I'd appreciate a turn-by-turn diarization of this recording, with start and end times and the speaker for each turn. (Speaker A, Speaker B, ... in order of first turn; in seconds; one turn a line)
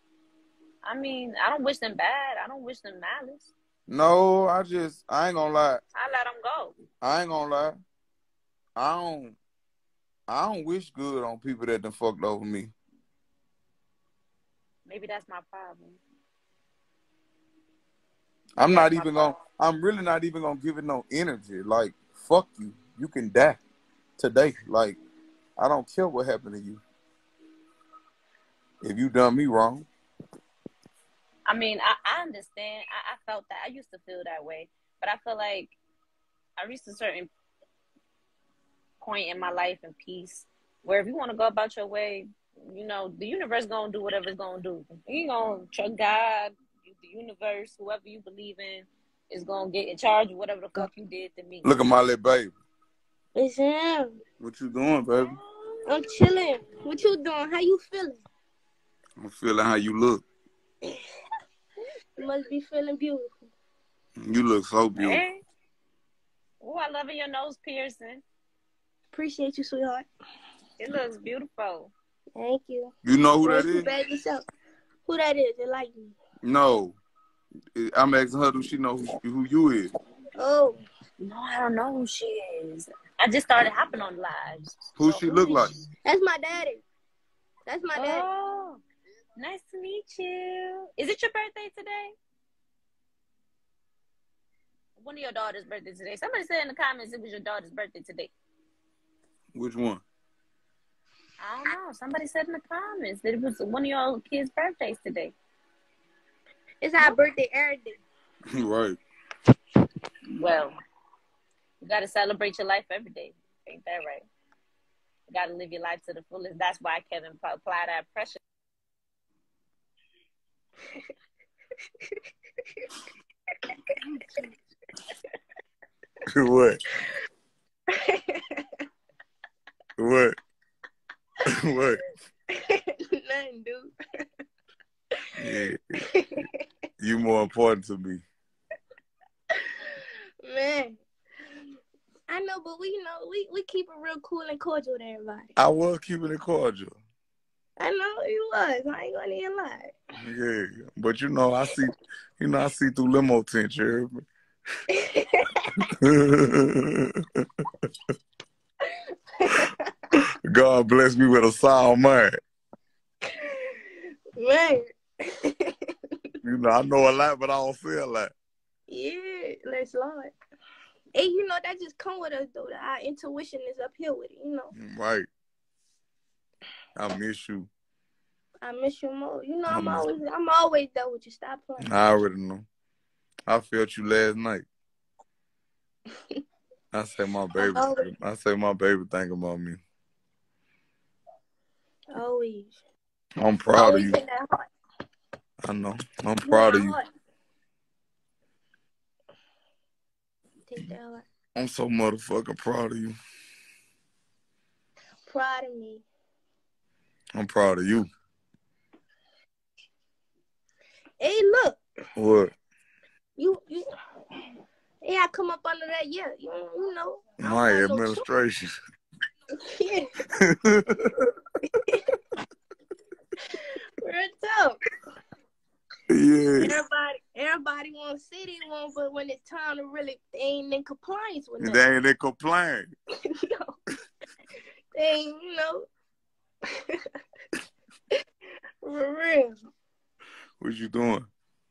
Speaker A: 0.8-3.5
Speaker B: 3.9-5.8
Speaker A: 5.9-6.7
Speaker B: 7.0-7.8
Speaker B: 8.8-9.3
Speaker B: 10.3-12.7
Speaker A: 14.8-16.0
Speaker B: 18.6-23.6
Speaker A: 18.6-19.4
Speaker B: 24.2-25.0
Speaker B: 25.6-26.8
Speaker B: 28.8-29.9
Speaker A: 31.4-35.8
Speaker A: 36.6-37.3
Speaker A: 39.0-51.7
Speaker B: 51.6-52.5
Speaker C: 53.3-54.2
Speaker B: 54.4-55.4
Speaker A: 55.3-55.9
Speaker C: 55.9-58.2
Speaker B: 59.2-60.2
Speaker C: 62.2-63.5
Speaker B: 64.2-65.2
Speaker A: 65.0-65.4
Speaker A: 66.6-68.2
Speaker C: 69.1-70.1
Speaker A: 70.8-71.9
Speaker C: 72.3-74.4
Speaker B: 73.0-73.9
Speaker C: 75.0-76.1
Speaker B: 76.4-77.0
Speaker B: 77.7-79.9
Speaker C: 80.4-80.8
Speaker A: 81.2-85.7
Speaker B: 85.0-85.7
Speaker C: 86.0-86.8
Speaker C: 87.7-88.3
Speaker A: 87.9-88.8
Speaker A: 89.4-92.1
Speaker A: 95.0-98.3
Speaker B: 99.5-100.0
Speaker A: 101.4-105.3
Speaker C: 106.8-108.0
Speaker B: 108.5-109.0
Speaker A: 110.3-110.7
Speaker A: 111.8-114.2
Speaker A: 115.3-118.4
Speaker B: 126.3-126.8
Speaker C: 127.9-128.6
Speaker B: 130.0-130.3
Speaker B: 131.4-132.0
Speaker C: 132.5-133.9
Speaker B: 135.4-136.1
Speaker C: 136.1-136.5
Speaker B: 137.0-138.2
Speaker C: 140.4-141.0
Speaker C: 142.3-145.5
Speaker B: 145.6-146.9
Speaker C: 147.8-149.9
Speaker B: 150.2-154.2
Speaker C: 154.9-155.4
Speaker B: 156.0-157.1
Speaker C: 159.4-159.7
Speaker B: 160.4-162.3
Speaker C: 164.4-164.9
Speaker B: 166.4-168.3
Speaker C: 168.9-170.3
Speaker C: 171.1-174.7
Speaker B: 174.7-175.3
Speaker B: 177.0-177.7
Speaker C: 178.6-181.8
Speaker B: 179.7-180.0
Speaker B: 181.8-182.7
Speaker B: 183.5-184.7
Speaker B: 186.9-189.8
Speaker C: 187.6-188.0
Speaker C: 192.1-192.8
Speaker B: 193.4-194.2
Speaker C: 193.7-194.7
Speaker B: 195.6-197.0
Speaker C: 196.4-197.1
Speaker C: 200.7-201.2
Speaker B: 201.5-203.2
Speaker C: 205.2-206.0
Speaker B: 207.3-208.1
Speaker C: 211.2-211.8
Speaker B: 212.2-212.5
Speaker C: 213.4-213.8
Speaker C: 215.0-218.2
Speaker B: 217.4-218.8
Speaker C: 219.7-220.1
Speaker B: 220.4-221.3
Speaker C: 221.8-222.1
Speaker C: 224.0-224.8
Speaker B: 226.1-226.7
Speaker C: 226.6-231.8
Speaker B: 231.6-232.9
Speaker C: 233.3-233.8
Speaker C: 234.9-235.9
Speaker C: 238.8-239.6
Speaker B: 240.6-241.3